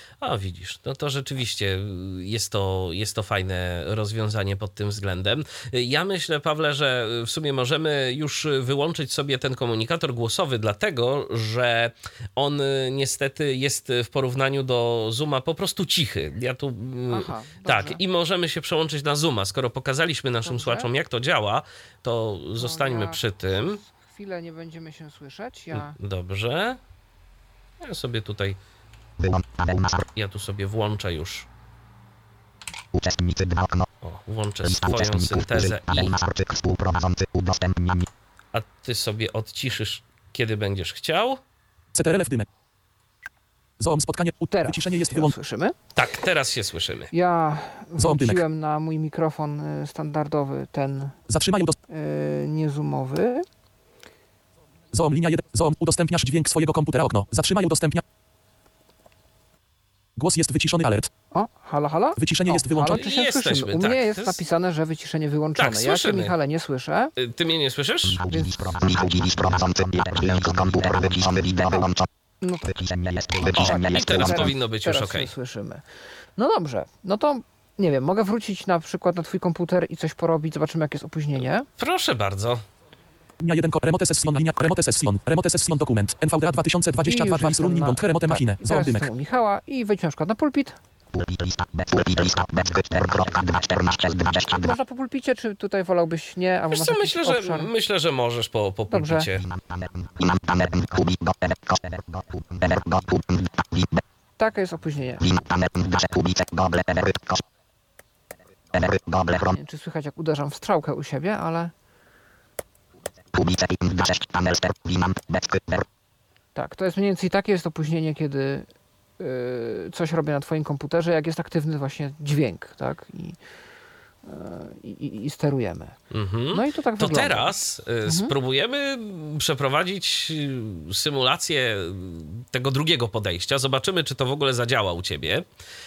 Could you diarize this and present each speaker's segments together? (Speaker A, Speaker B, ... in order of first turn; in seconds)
Speaker A: 0.2-23.8, 25.7-26.8, 27.8-28.6, 30.1-31.5, 34.0-36.1, 38.5-41.4, 46.0-47.1, 62.9-64.4, 65.6-66.3, 67.2-68.2, 73.5-75.3, 81.8-82.6, 96.7-99.5, 126.1-135.4
Speaker B: 17.1-18.0, 20.4-20.9, 22.6-26.0, 44.5-45.8, 47.1-51.2, 51.9-53.5, 61.3-67.1, 68.3-68.8, 72.4-72.7, 73.4-75.8, 76.4-81.7, 87.0-90.8, 94.5-97.7, 98.9-99.3, 104.4-105.3, 109.5-111.7, 116.5-118.7, 119.2-123.4, 124.2-126.0, 126.5-128.3
Speaker C: 29.2-30.1, 32.9-33.9, 34.6-38.1, 68.0-72.1, 72.6-74.5, 91.1-94.7, 99.3-104.0, 105.2-107.4, 108.7-109.6, 113.3-115.8
Speaker D: 41.9-42.5, 43.8-45.4, 48.0-48.4, 51.3-51.8, 54.9-58.0, 60.2-61.1, 62.2-63.0, 83.4-89.1